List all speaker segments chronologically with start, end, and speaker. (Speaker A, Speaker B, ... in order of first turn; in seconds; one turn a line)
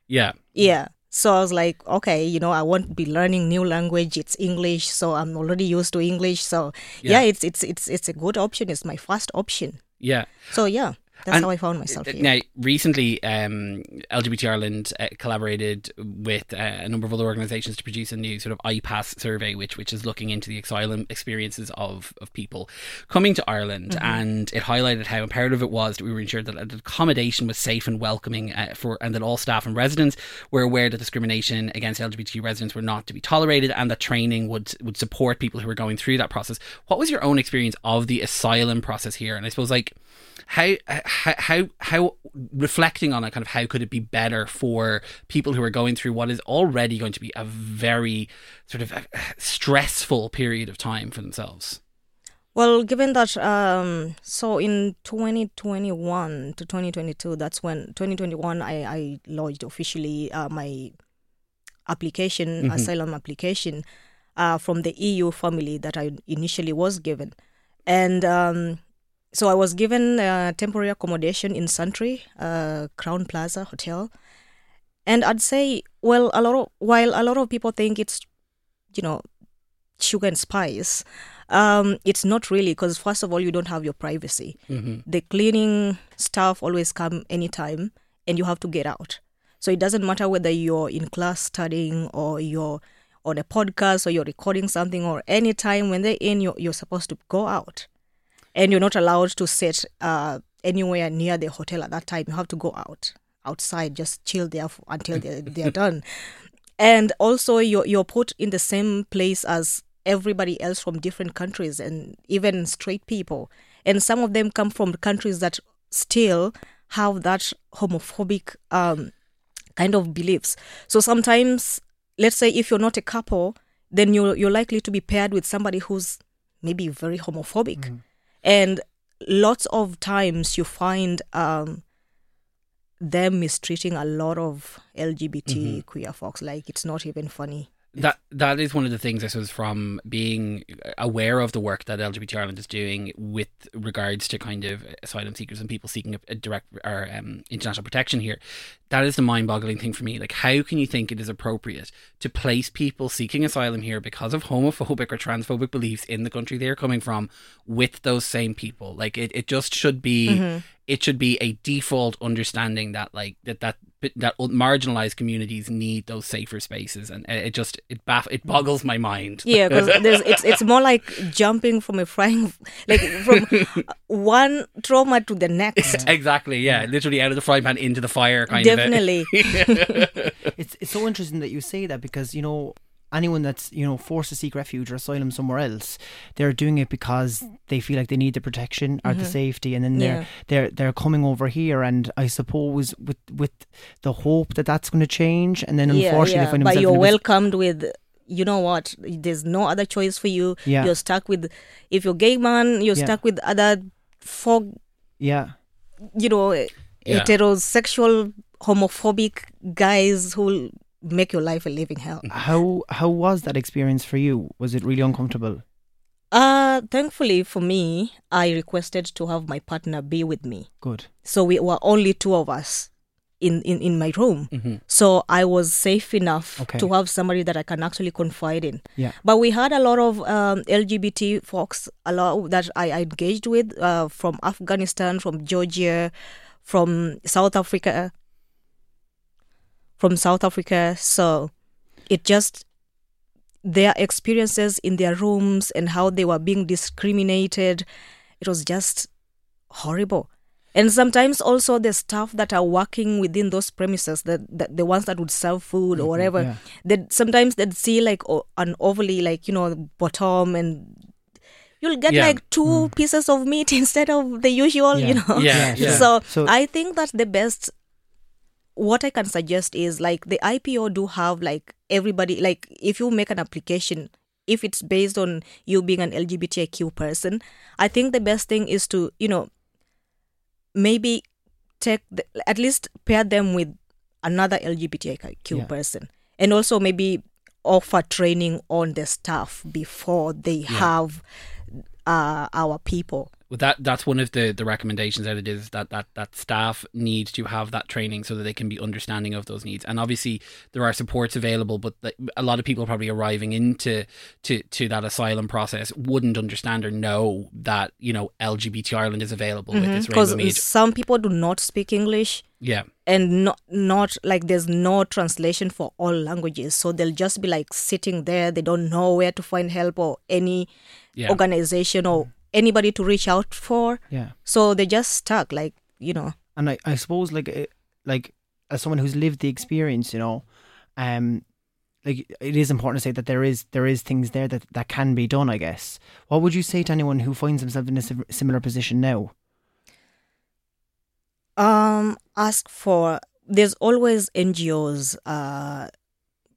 Speaker A: 0.1-0.4
Speaker B: 0.5-9.8
Speaker A: 10.0-10.5
Speaker B: 10.5-12.3
Speaker A: 11.3-40.0
Speaker B: 23.9-24.2
Speaker A: 40.5-51.8
Speaker B: 52.5-60.9
Speaker B: 61.9-63.9
Speaker A: 62.6-62.9
Speaker B: 64.4-67.3
Speaker B: 67.9-74.1
Speaker B: 75.0-78.3
Speaker B: 78.9-79.2
Speaker B: 80.0-97.9
Speaker A: 84.7-85.0
Speaker B: 98.5-119.1
Speaker B: 119.8-127.9
Speaker B: 128.4-131.8
Speaker B: 133.0-137.7
Speaker A: 135.5-135.8
Speaker A: 137.9-170.4
Speaker B: 160.3-160.7
Speaker B: 169.4-176.1
Speaker A: 175.8-180.4
Speaker C: 175.8-176.1
Speaker B: 178.5-180.1
Speaker C: 180.6-197.2
Speaker B: 189.1-190.3
Speaker B: 195.9-204.8
Speaker C: 200.7-200.9
Speaker C: 205.2-205.5
Speaker B: 206.1-212.3
Speaker C: 212.3-215.6
Speaker B: 216.3-220.7
Speaker C: 220.8-221.1
Speaker B: 221.2-236.1
Speaker A: 224.5-224.8
Speaker C: 226.6-226.9
Speaker B: 236.6-238.1
Speaker B: 240.0-241.5
Speaker B: 242.1-242.7
Speaker B: 243.6-247.8
Speaker B: 248.4-249.1
Speaker B: 249.7-261.0
Speaker C: 256.0-256.6
Speaker B: 261.8-267.7
Speaker A: 262.1-262.4
Speaker C: 262.6-262.9
Speaker C: 264.9-266.5
Speaker A: 265.3-266.1
Speaker B: 268.8-279.5
Speaker B: 280.8-281.2
Speaker B: 281.8-293.3
Speaker A: 293.5-310.6
Speaker B: 309.7-312.4
Speaker A: 312.6-312.9
Speaker B: 313.1-320.7
Speaker B: 321.2-326.4
Speaker C: 326.6-331.5
Speaker C: 332.0-339.3
Speaker B: 341.6-345.9